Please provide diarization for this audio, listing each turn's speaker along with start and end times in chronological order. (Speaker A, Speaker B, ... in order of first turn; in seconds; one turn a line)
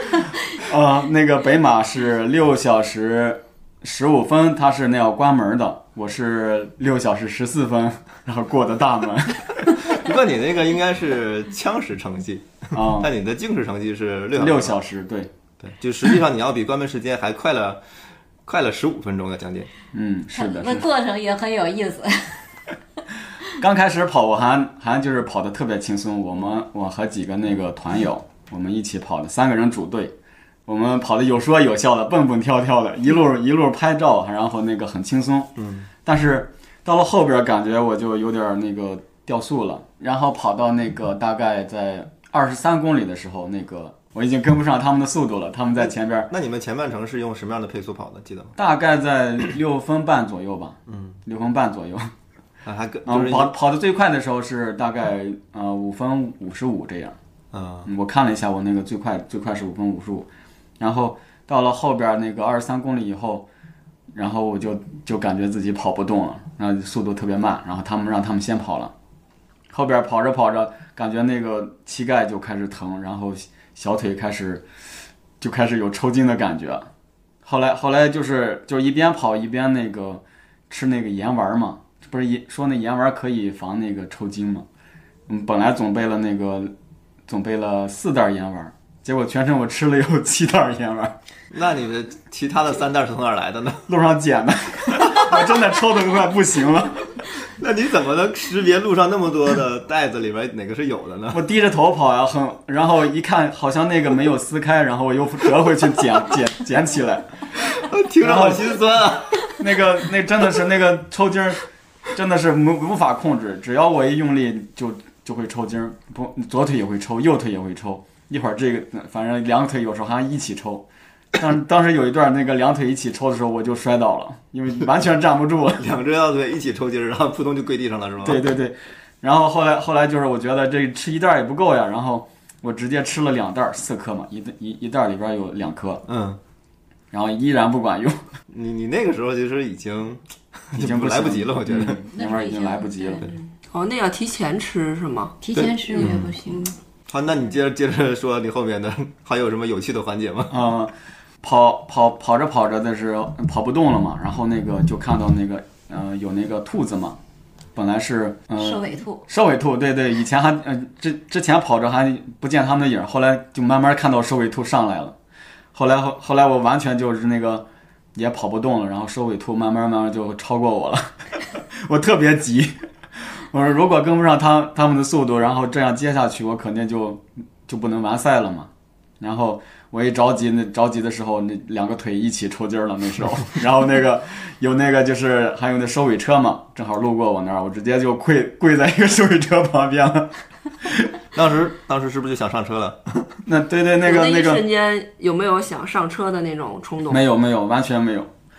Speaker A: 0.6-10.0
Speaker B: 9.9-14.8
Speaker A: 12.7-13.1
Speaker A: 14.3-15.3
Speaker B: 15.6-17.8
Speaker B: 18.5-19.7
Speaker A: 19.9-20.9
Speaker C: 20.3-22.4
Speaker A: 23.6-30.1
Speaker A: 30.7-46.3
Speaker B: 35.6-35.9
Speaker B: 46.3-48.5
Speaker A: 48.6-52.1
Speaker B: 50.9-51.2
Speaker B: 52.6-53.5
Speaker A: 53.1-57.1
Speaker B: 57.5-57.9
Speaker A: 57.9-60.3
Speaker A: 60.8-63.5
Speaker A: 64.1-68.9
Speaker A: 69.7-74.6
Speaker A: 75.4-76.9
Speaker A: 77.4-84.7
Speaker A: 85.3-86.7
Speaker A: 87.3-91.1
Speaker B: 91.5-93.9
Speaker A: 93.9-97.2
Speaker B: 95.0-95.3
Speaker B: 97.4-101.4
Speaker A: 101.3-107.3
Speaker B: 107.6-109.6
Speaker A: 108.2-120.9
Speaker A: 121.4-125.8
Speaker B: 125.8-128.4
Speaker A: 128.2-136.1
Speaker B: 136.1-136.4
Speaker A: 137.1-138.2
Speaker B: 138.5-140.2
Speaker B: 140.7-142.0
Speaker A: 140.8-143.2
Speaker C: 142.1-143.3
Speaker D: 143.6-145.4
Speaker C: 145.4-146.7
Speaker B: 145.5-146.3
Speaker D: 145.9-146.8
Speaker B: 147.1-150.6
Speaker A: 150.5-157.2
Speaker A: 157.8-165.1
Speaker C: 158.6-159.2
Speaker A: 165.7-172.8
Speaker A: 173.5-191.1
Speaker B: 191.3-193.4
Speaker A: 193.5-194.7
Speaker D: 194.0-197.2
Speaker A: 197.1-198.3